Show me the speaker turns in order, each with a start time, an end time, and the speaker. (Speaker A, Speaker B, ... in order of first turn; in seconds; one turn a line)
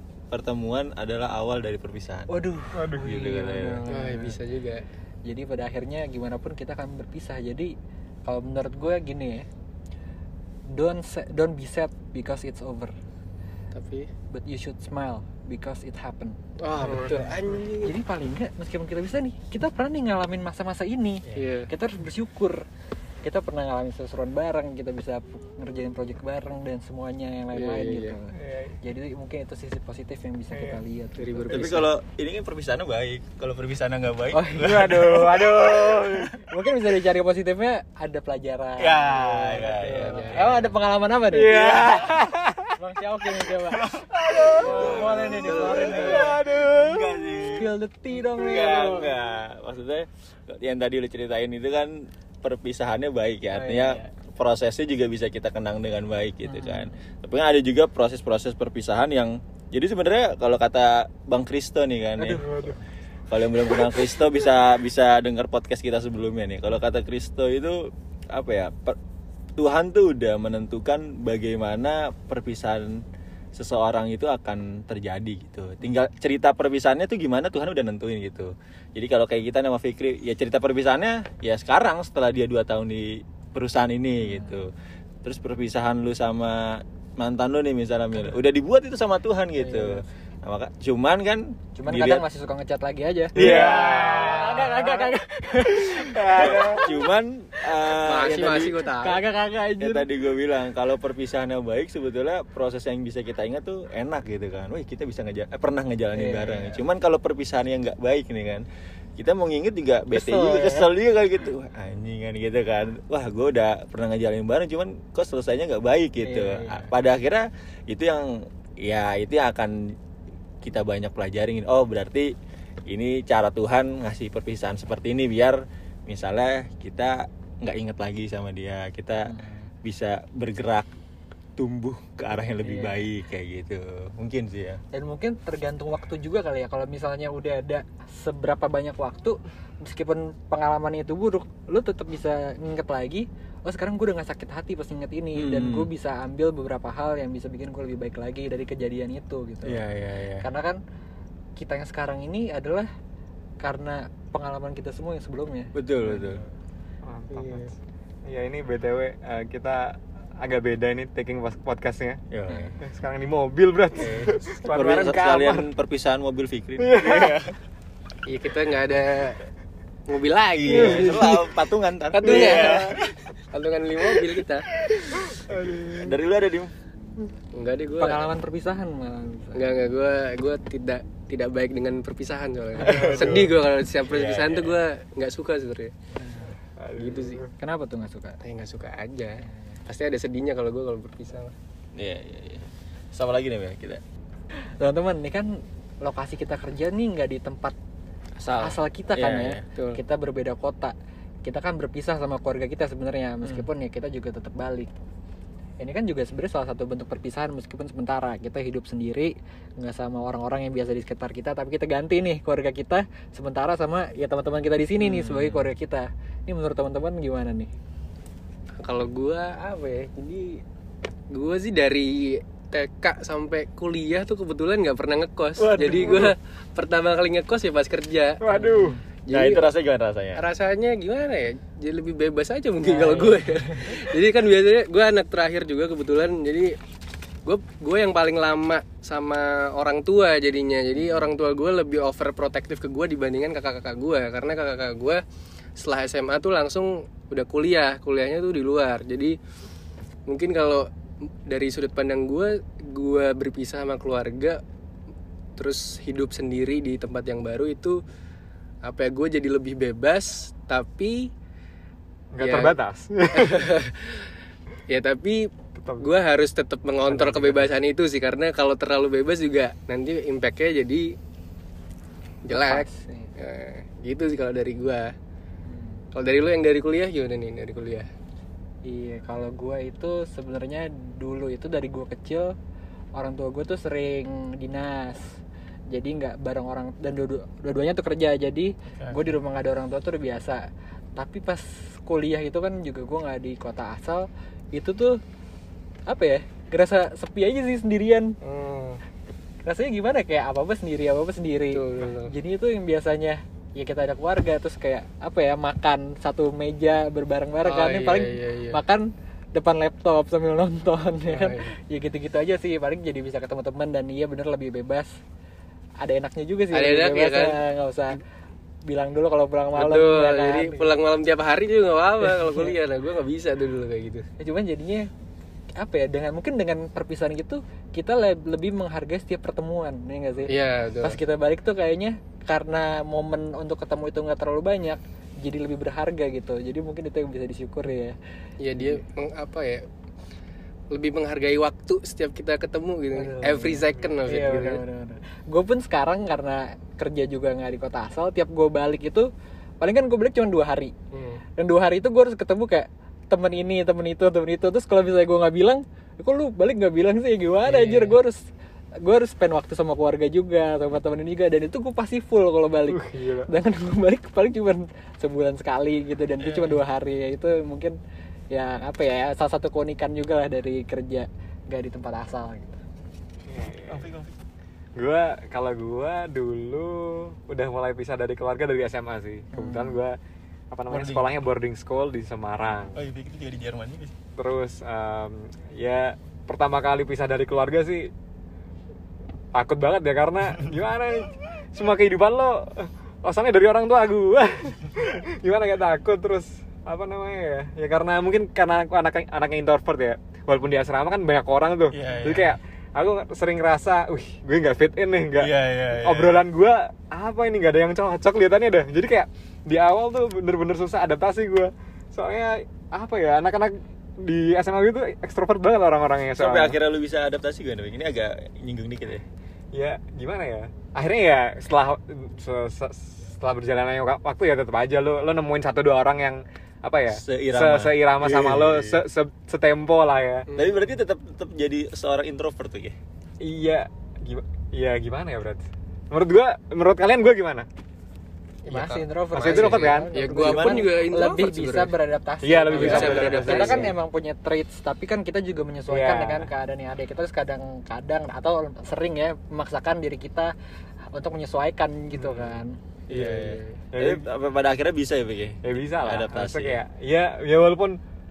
Speaker A: 0.3-2.3
Speaker B: 2.3-4.4
Speaker C: 2.7-3.1
Speaker A: 3.0-3.8
Speaker D: 3.9-4.8
Speaker B: 5.2-7.7
Speaker B: 8.3-9.5
Speaker B: 10.7-12.9
Speaker D: 13.7-14.1
Speaker B: 14.3-22.6
Speaker D: 16.6-17.9
Speaker D: 21.4-21.7
Speaker B: 23.2-31.9
Speaker D: 27.5-28.1
Speaker D: 31.2-31.9
Speaker A: 31.5-36.3
Speaker B: 34.3-35.0
Speaker C: 34.6-36.3
Speaker B: 36.5-42.0
Speaker A: 38.8-40.6
Speaker D: 39.8-40.7
Speaker C: 41.3-42.8
Speaker A: 41.5-42.1
Speaker B: 42.8-44.0
Speaker A: 43.7-62.7
Speaker B: 44.5-46.3
Speaker D: 44.9-46.3
Speaker C: 46.0-47.2
Speaker B: 47.5-49.1
Speaker B: 53.5-54.0
Speaker B: 56.5-56.9
Speaker B: 62.2-62.8
Speaker A: 63.3-69.0
Speaker A: 69.6-73.0
Speaker A: 73.5-84.7
Speaker B: 84.2-84.6
Speaker A: 85.2-92.2
Speaker B: 89.6-90.0
Speaker B: 91.8-97.1
Speaker C: 93.3-94.5
Speaker A: 93.3-95.1
Speaker C: 95.9-96.8
Speaker A: 96.3-98.8
Speaker D: 98.0-99.2
Speaker B: 98.9-100.0
Speaker A: 99.8-120.0
Speaker B: 106.1-106.8
Speaker B: 110.1-110.9
Speaker B: 116.2-116.9
Speaker A: 120.6-122.3
Speaker A: 122.9-130.9
Speaker B: 129.3-129.7
Speaker A: 131.6-134.8
Speaker B: 132.6-132.9
Speaker B: 134.9-149.9
Speaker A: 145.3-145.9
Speaker A: 149.7-150.4
Speaker B: 150.4-150.8
Speaker B: 151.6-152.9
Speaker B: 153.6-156.4
Speaker A: 155.8-156.4
Speaker C: 157.1-157.8
Speaker D: 157.3-157.7
Speaker C: 158.3-162.2
Speaker A: 162.3-162.8
Speaker C: 162.8-165.7
Speaker A: 163.9-167.6
Speaker C: 166.8-167.4
Speaker D: 168.3-169.4
Speaker D: 170.1-174.7
Speaker A: 170.6-173.2
Speaker C: 170.7-171.1
Speaker C: 172.3-172.9
Speaker A: 174.8-176.7
Speaker C: 175.2-176.2
Speaker D: 177.5-178.3
Speaker B: 178.0-179.7
Speaker D: 179.6-185.9
Speaker A: 182.8-184.8
Speaker B: 182.8-183.1
Speaker B: 186.2-186.5
Speaker C: 186.8-187.5
Speaker D: 186.9-187.4
Speaker B: 187.6-188.4
Speaker D: 188.4-191.5
Speaker A: 191.9-194.0
Speaker B: 194.8-195.5
Speaker B: 196.0-197.8
Speaker A: 198.4-199.6
Speaker B: 198.6-204.9
Speaker B: 205.8-217.7
Speaker D: 215.0-215.7
Speaker D: 218.8-220.6
Speaker D: 221.3-228.8
Speaker A: 225.6-226.3
Speaker C: 228.4-229.0
Speaker B: 228.6-229.0
Speaker D: 229.3-229.7
Speaker A: 229.3-230.4
Speaker D: 230.4-236.8
Speaker B: 232.8-233.6
Speaker D: 237.4-245.2
Speaker D: 245.8-249.4
Speaker D: 250.3-250.9
Speaker D: 251.5-254.6
Speaker D: 255.6-258.0
Speaker D: 258.8-261.3
Speaker C: 262.3-263.7
Speaker D: 262.4-262.8
Speaker D: 263.3-264.3
Speaker D: 264.9-265.5
Speaker C: 265.8-266.1
Speaker D: 266.0-271.1
Speaker C: 267.1-267.7
Speaker D: 272.5-275.1
Speaker B: 272.5-273.3
Speaker B: 275.7-276.0
Speaker D: 276.1-278.1
Speaker B: 278.9-282.5
Speaker B: 283.1-285.4
Speaker B: 285.9-290.6
Speaker A: 289.0-289.3
Speaker B: 291.2-295.2
Speaker B: 296.1-298.3
Speaker D: 298.4-299.0
Speaker B: 299.6-315.2
Speaker D: 301.7-302.3
Speaker D: 307.6-308.8
Speaker D: 311.3-311.7
Speaker B: 316.0-318.2
Speaker D: 316.7-317.6
Speaker B: 318.9-320.9
Speaker D: 319.8-324.3
Speaker B: 322.2-322.7
Speaker B: 324.4-325.1
Speaker B: 325.8-338.2
Speaker D: 330.5-331.2
Speaker D: 338.6-339.9
Speaker D: 340.9-344.8
Speaker B: 343.1-349.3
Speaker B: 349.8-350.9
Speaker D: 351.1-351.4
Speaker B: 351.6-358.4
Speaker D: 357.6-358.2
Speaker B: 359.0-368.0
Speaker C: 362.9-363.5
Speaker A: 366.4-366.8
Speaker B: 368.5-372.8
Speaker C: 373.5-374.1
Speaker A: 373.9-374.4
Speaker C: 375.0-380.2
Speaker B: 379.5-380.0
Speaker C: 380.7-383.0
Speaker A: 380.9-381.3
Speaker A: 382.9-384.1
Speaker C: 384.4-388.1
Speaker C: 389.5-416.8
Speaker A: 401.9-402.6
Speaker A: 405.4-406.4
Speaker A: 416.4-419.2
Speaker C: 419.7-430.5
Speaker A: 427.1-429.0
Speaker D: 430.5-430.9
Speaker A: 430.6-433.0
Speaker C: 433.4-437.7
Speaker D: 438.6-441.9
Speaker B: 438.7-450.5
Speaker C: 439.4-440.1
Speaker A: 440.4-440.8
Speaker C: 442.4-443.9
Speaker D: 442.8-443.9
Speaker A: 443.0-443.4
Speaker C: 445.9-446.5
Speaker B: 451.1-452.8
Speaker C: 452.2-452.6
Speaker D: 453.1-453.8
Speaker A: 453.1-456.8
Speaker C: 453.9-454.2
Speaker C: 455.6-458.0